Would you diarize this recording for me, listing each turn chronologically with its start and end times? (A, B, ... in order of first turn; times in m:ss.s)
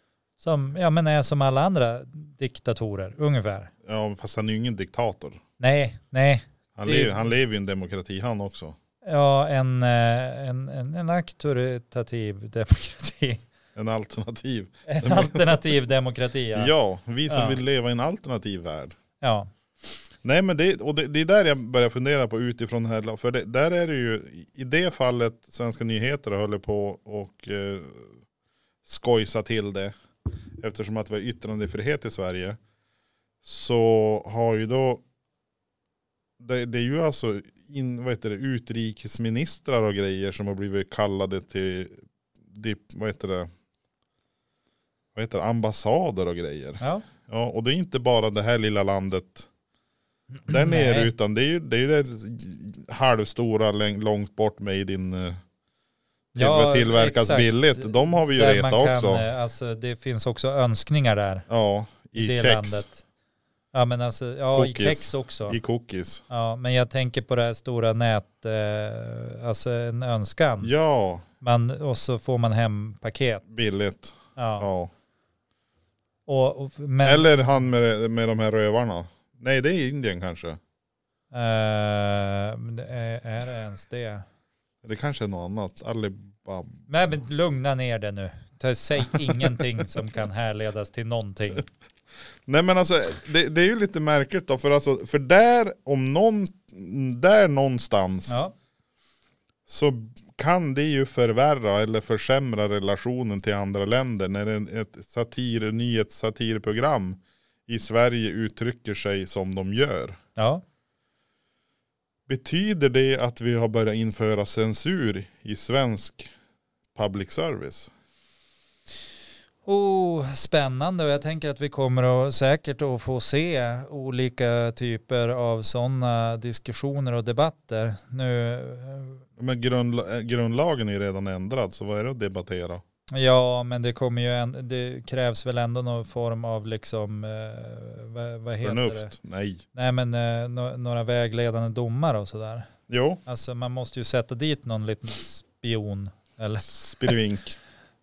0:00.4-0:03.7 A
0:03.8-0:05.4 B
0:05.6-0:07.3 A
0:06.8-0:08.8 B
0:09.0-0:13.4 A
0:13.7-0:15.7 B
0:14.9-0:16.7 A
0:16.5-0:19.0 B
0:17.3-0:17.6 A
0:19.2-0:19.5 A
0:20.2-0:28.1 B
0:28.8-0:29.9 B
0:30.6-0:32.6 B
0:33.4-0:35.0 B
0:36.4-0:43.5 B
0:45.1-0:49.5 B
0:46.8-0:47.0 A
0:50.5-0:51.1 A
0:50.5-0:55.4 B
0:56.3-0:59.2 B
0:56.4-1:01.5 A
1:01.5-1:02.8 B
1:02.2-1:03.0 A
1:03.7-1:05.6 A
1:04.5-1:06.2 B
1:06.3-1:10.7 A
1:10.6-1:11.2 B
1:11.4-1:13.5 A
1:13.5-1:14.9 B
1:14.4-1:14.7 A
1:16.3-1:17.3 A
1:17.0-1:20.6 B
1:21.3-1:24.2 A
1:24.8-1:26.8 B
1:26.9-1:31.7 A
1:32.4-1:38.4 B
1:38.3-1:38.5 A
1:39.7-1:50.2 B
1:50.4-1:50.6 A
1:52.3-1:56.3 B
1:56.9-1:57.9 B
1:59.6-2:09.2 A
2:09.4-2:12.8 B
2:13.1-2:19.1 A
2:18.6-2:19.6 B
2:19.7-2:22.7 A
2:22.9-2:23.2 B
2:23.2-2:27.1 A
2:26.6-2:27.6 B